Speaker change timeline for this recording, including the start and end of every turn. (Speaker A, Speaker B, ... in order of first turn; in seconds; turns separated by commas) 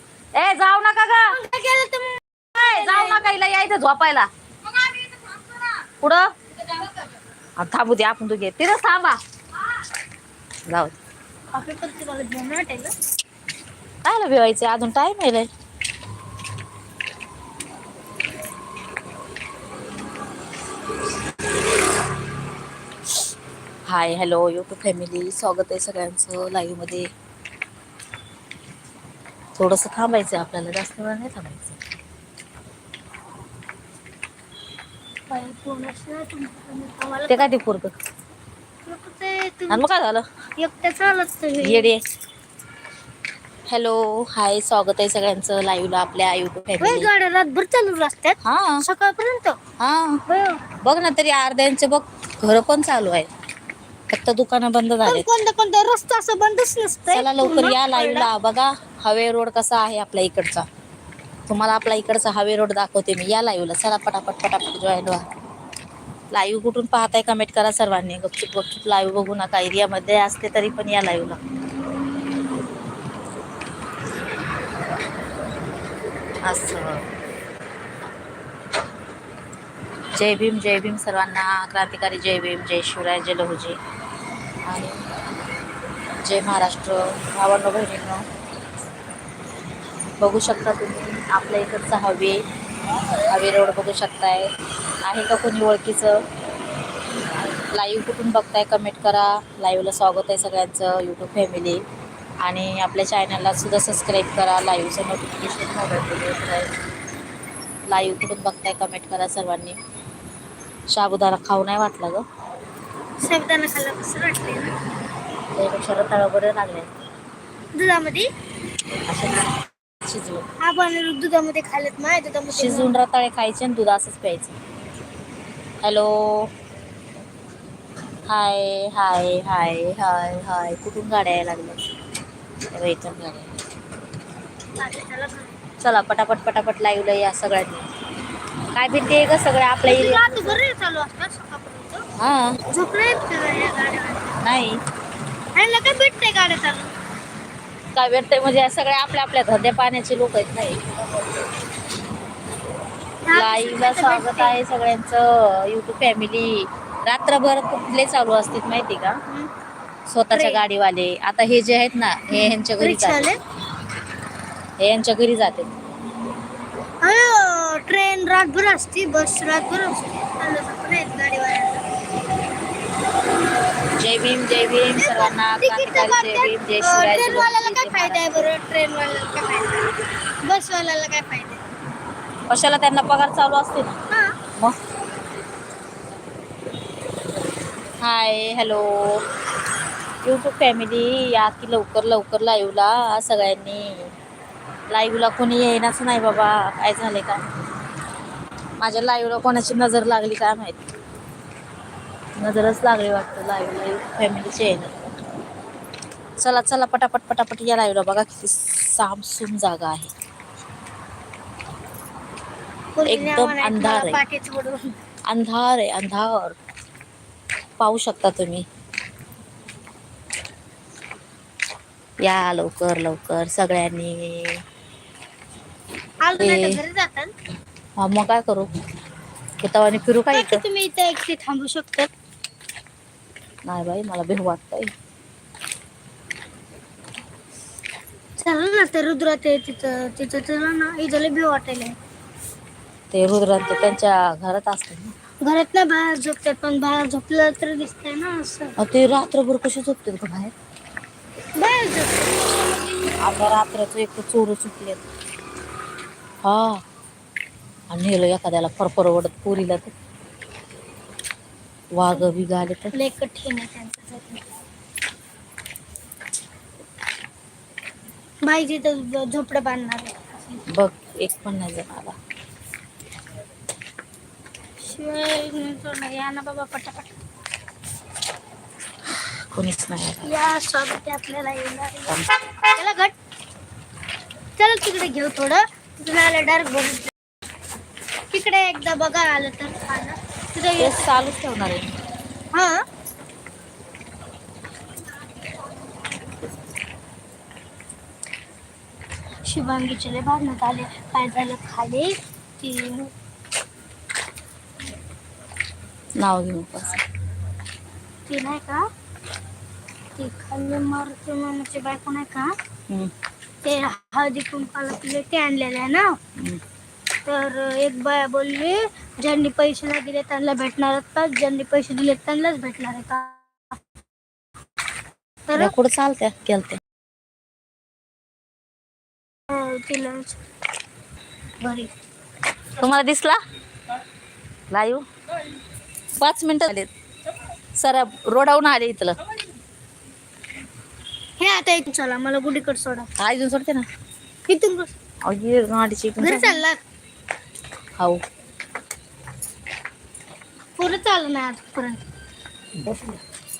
Speaker A: 0.3-1.3, Speaker B: 1.3-3.2, Speaker A: 2.6-4.3, Speaker A: 6.0-6.3, Speaker A: 7.6-9.2, Speaker A: 10.7-11.0, Speaker B: 11.5-12.9, Speaker A: 14.0-15.5, Speaker A: 23.9-27.1, Speaker A: 29.6-31.8, Speaker B: 35.3-37.5, Speaker A: 37.3-37.9, Speaker B: 38.9-39.8, Speaker A: 39.7-40.2, Speaker B: 40.6-41.9, Speaker A: 41.6-42.1, Speaker A: 43.7-47.1, Speaker B: 46.8-49.6, Speaker A: 48.4-48.8, Speaker A: 49.8-50.2, Speaker B: 50.3-50.6, Speaker A: 50.8-53.3, Speaker A: 54.1-55.3, Speaker B: 55.0-58.3, Speaker A: 57.1-60.6, Speaker A: 61.5-65.2, Speaker A: 66.3-71.4, Speaker A: 76.4-77.0, Speaker A: 80.2-83.8, Speaker A: 84.6-85.0, Speaker A: 86.2-88.2, Speaker A: 90.2-92.4, Speaker A: 93.3-94.5, Speaker A: 95.0-96.2, Speaker A: 97.7-101.8, Speaker A: 102.4-106.7, Speaker A: 107.8-109.8, Speaker A: 110.9-112.2, Speaker B: 113.2-114.7, Speaker A: 115.5-116.9, Speaker B: 117.7-118.3, Speaker A: 119.1-119.5, Speaker A: 120.0-120.4, Speaker B: 120.6-122.9, Speaker A: 122.5-124.5, Speaker A: 125.8-126.5, Speaker A: 128.3-131.8, Speaker A: 132.7-133.5, Speaker B: 134.8-135.6, Speaker A: 135.8-137.9, Speaker A: 138.7-140.6, Speaker B: 139.8-142.0, Speaker A: 142.2-142.6, Speaker B: 142.7-144.3, Speaker A: 144.4-144.8, Speaker B: 145.5-146.9, Speaker A: 147.9-150.8, Speaker B: 153.2-154.6, Speaker A: 153.3-159.2, Speaker A: 160.1-163.3, Speaker B: 160.3-160.6, Speaker B: 162.3-163.4, Speaker A: 164.8-165.7, Speaker B: 167.0-171.8, Speaker A: 174.0-178.5, Speaker B: 174.9-179.8, Speaker B: 180.4-181.6, Speaker A: 182.5-184.0, Speaker B: 184.1-184.3, Speaker A: 188.0-189.2, Speaker A: 190.2-194.1, Speaker A: 194.9-197.5, Speaker A: 198.8-200.8, Speaker A: 202.4-204.9, Speaker A: 206.4-210.1, Speaker B: 212.9-214.9, Speaker A: 213.1-214.2, Speaker A: 215.3-216.5, Speaker A: 217.8-218.7, Speaker A: 222.2-224.6, Speaker B: 226.2-227.3, Speaker A: 226.3-226.8, Speaker A: 228.0-228.7, Speaker A: 229.6-230.6, Speaker B: 230.3-232.1, Speaker A: 233.6-234.9, Speaker B: 238.4-241.9, Speaker A: 243.1-245.1, Speaker B: 245.4-248.7, Speaker A: 248.8-250.5, Speaker B: 251.6-252.4, Speaker A: 253.2-255.0, Speaker A: 256.4-256.8, Speaker A: 257.9-259.9, Speaker A: 261.9-262.9, Speaker B: 262.9-264.5, Speaker B: 268.4-270.6, Speaker A: 270.7-272.1, Speaker B: 274.8-277.1, Speaker A: 279.5-280.3, Speaker B: 280.2-282.2, Speaker B: 282.7-283.1, Speaker B: 284.6-287.1, Speaker B: 288.3-291.1, Speaker A: 290.8-291.9, Speaker B: 292.5-292.8, Speaker B: 299.4-303.1, Speaker A: 306.2-307.0, Speaker B: 308.3-308.8, Speaker B: 310.1-312.5, Speaker B: 313.6-316.1, Speaker B: 317.2-323.4, Speaker B: 325.5-325.7, Speaker A: 325.6-326.8, Speaker B: 329.5-330.4, Speaker B: 331.6-331.9, Speaker A: 332.8-333.4, Speaker A: 334.7-335.0, Speaker A: 336.2-336.9, Speaker A: 337.8-339.2, Speaker B: 341.4-343.1, Speaker A: 343.2-343.9, Speaker B: 344.5-344.9, Speaker A: 345.2-346.6, Speaker B: 346.2-346.8, Speaker B: 350.8-352.0, Speaker A: 352.7-353.2